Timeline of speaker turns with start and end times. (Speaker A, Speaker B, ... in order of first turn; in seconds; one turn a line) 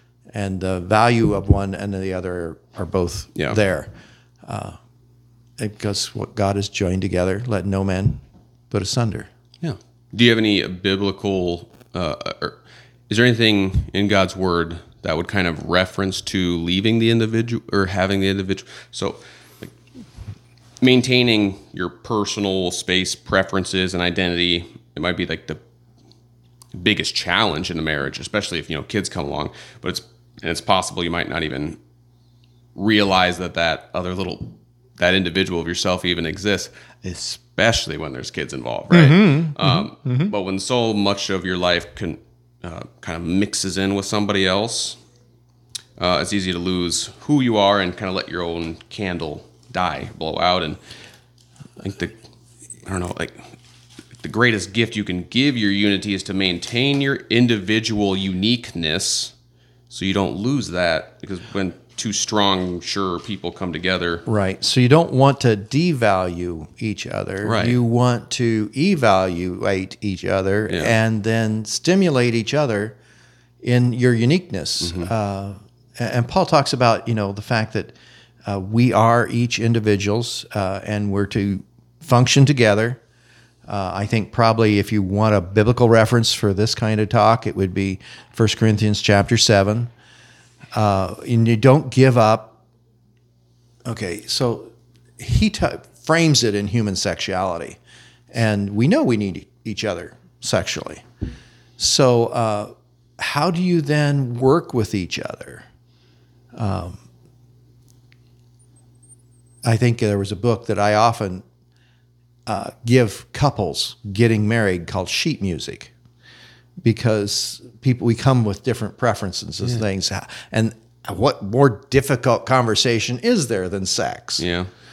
Speaker A: 0.3-3.9
Speaker A: 4.4-4.8
Speaker A: 5.6-9.3
Speaker B: 9.6-12.6
Speaker B: 13.1-19.7
Speaker B: 20.8-25.6
Speaker B: 26.7-31.8
Speaker B: 32.8-45.0
Speaker A: 38.9-40.3
Speaker B: 46.0-50.8
Speaker B: 51.8-52.2
Speaker B: 52.9-53.5
Speaker B: 54.2-59.3
Speaker B: 59.9-64.2
Speaker A: 64.2-73.0
Speaker B: 67.4-67.8
Speaker B: 70.7-70.9
Speaker A: 73.6-77.9
Speaker B: 74.8-75.1
Speaker A: 78.5-83.0
Speaker A: 83.7-89.9
Speaker A: 90.7-92.6
Speaker A: 93.8-97.8
Speaker A: 98.3-101.0
Speaker A: 101.8-105.6
Speaker A: 106.5-107.0
Speaker A: 109.6-111.4
Speaker A: 112.5-115.9
Speaker A: 116.8-124.4
Speaker B: 124.4-124.7